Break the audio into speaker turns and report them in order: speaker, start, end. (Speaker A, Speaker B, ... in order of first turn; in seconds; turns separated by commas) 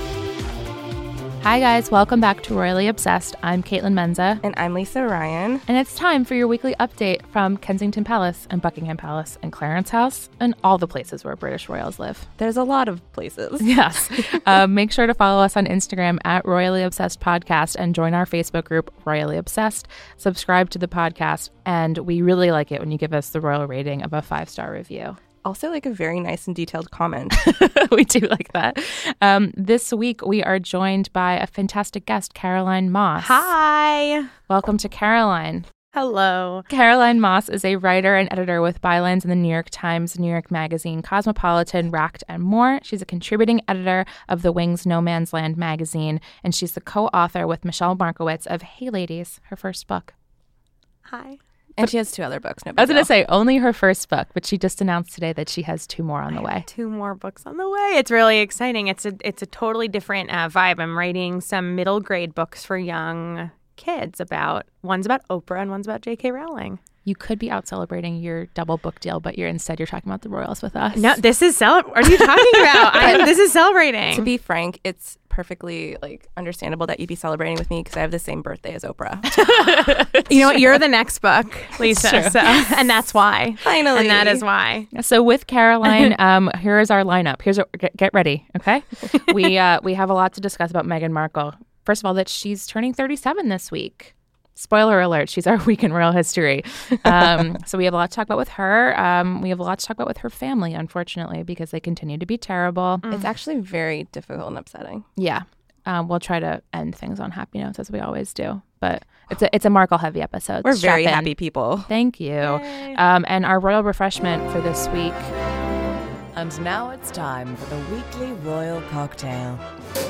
Speaker A: 1.4-4.4, Speaker B: 4.4-5.6, Speaker A: 5.7-12.3, Speaker B: 12.4-13.7, Speaker A: 13.6-25.2, Speaker B: 25.4-27.5, Speaker A: 27.3-33.5, Speaker C: 33.2-34.3, Speaker A: 34.5-35.7, Speaker C: 35.9-36.7, Speaker A: 36.7-50.1, Speaker C: 51.1-51.4, Speaker B: 51.8-53.1, Speaker A: 52.8-56.6, Speaker C: 56.6-66.8, Speaker A: 67.0-71.2, Speaker C: 70.9-74.3, Speaker A: 72.2-73.2, Speaker B: 74.1-79.4, Speaker A: 79.4-80.8, Speaker C: 79.4-84.9, Speaker A: 81.8-82.8, Speaker B: 83.6-84.4, Speaker A: 84.9-103.0, Speaker C: 103.0-103.3, Speaker B: 103.1-105.1, Speaker A: 105.2-111.3, Speaker B: 110.6-111.9, Speaker A: 111.9-115.3, Speaker C: 112.4-113.0, Speaker D: 116.3-119.6